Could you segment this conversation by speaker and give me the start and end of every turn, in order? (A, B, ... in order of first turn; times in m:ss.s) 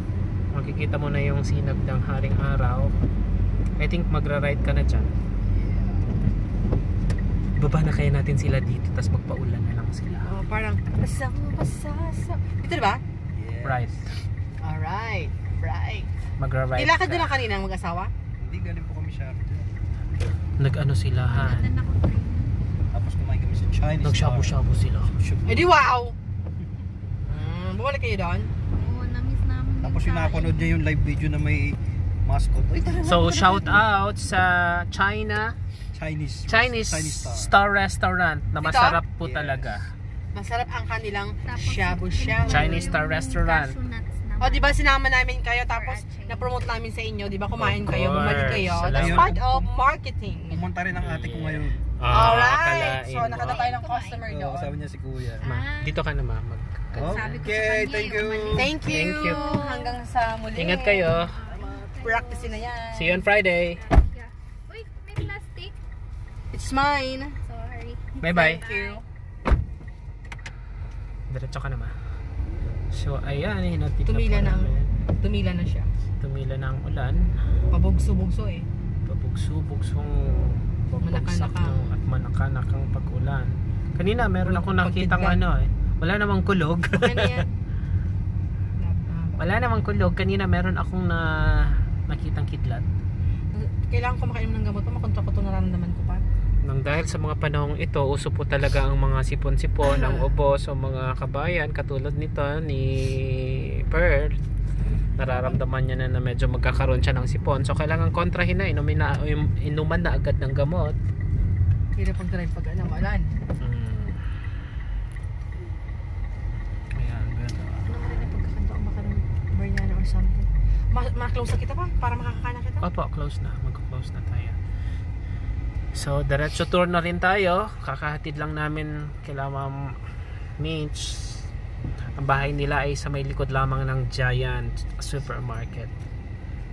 0:00.5-0:02.9 A
0:03.8-0:05.1 A
0:05.5-0:06.2 B
0:07.6-0:10.3 A
0:10.2-0:13.0 C
0:13.3-0:13.9 B
0:13.6-0:14.1 A
0:14.6-0:16.1 C
0:16.4-0:17.4 A
0:16.8-0:18.1 C
0:18.4-0:19.7 B
0:20.6-0:21.7 A
0:21.2-0:22.6 D
0:22.9-0:24.6 B
0:24.0-0:25.2 A
0:25.1-0:25.7 B
0:25.4-0:26.1 C
0:27.2-0:28.5 C
0:28.7-0:30.8 D
0:29.8-0:33.8 B
0:33.0-0:35.6 A
0:35.9-0:37.5 B
0:36.5-0:39.9 A
0:38.6-0:39.0 C
0:39.2-0:39.8 B
0:40.3-0:42.9 C
0:41.4-0:44.8 D
0:42.4-0:43.8 A
0:44.4-0:50.6 C
0:45.7-0:46.7 D
0:47.6-0:49.3 A
0:48.9-0:49.7 B
0:50.5-0:51.8 B
0:51.0-0:53.6 A
0:52.1-0:54.8 C
0:53.4-0:54.2 D
0:54.3-0:55.5 B
0:55.4-0:56.0 D
0:55.4-0:57.5 A
0:56.9-0:58.7 B
0:57.0-1:00.0 D
0:58.5-1:01.1 C
0:58.8-0:59.5 A
1:00.6-1:01.3 A
1:01.1-1:02.8 D
1:02.0-1:03.2 C
1:02.9-1:03.8 A
1:03.7-1:05.8 D
1:06.5-1:07.4 C
1:07.4-1:09.0 D
1:08.2-1:08.6 A
1:08.2-1:09.0 C
1:11.3-1:11.9 A
1:12.9-1:14.9 A
1:14.0-1:15.9 C
1:16.2-1:17.2 A
1:17.7-1:18.7 C
1:19.0-1:27.4 A
1:21.0-1:21.9 C
1:24.4-1:25.4 C
1:26.9-1:27.5 C
1:28.8-1:29.4 C
1:29.4-1:32.9 A
1:33.5-1:36.2 C
1:36.6-1:44.4 A
1:39.8-1:40.3 C
1:45.2-1:51.0 A
1:52.0-1:53.4 C
1:53.6-1:54.2 A
1:56.9-1:57.9 A
1:57.9-2:02.9 C
2:02.8-2:04.6 A
2:05.9-2:10.0 A
2:10.6-2:11.4 A
2:12.2-2:15.9 A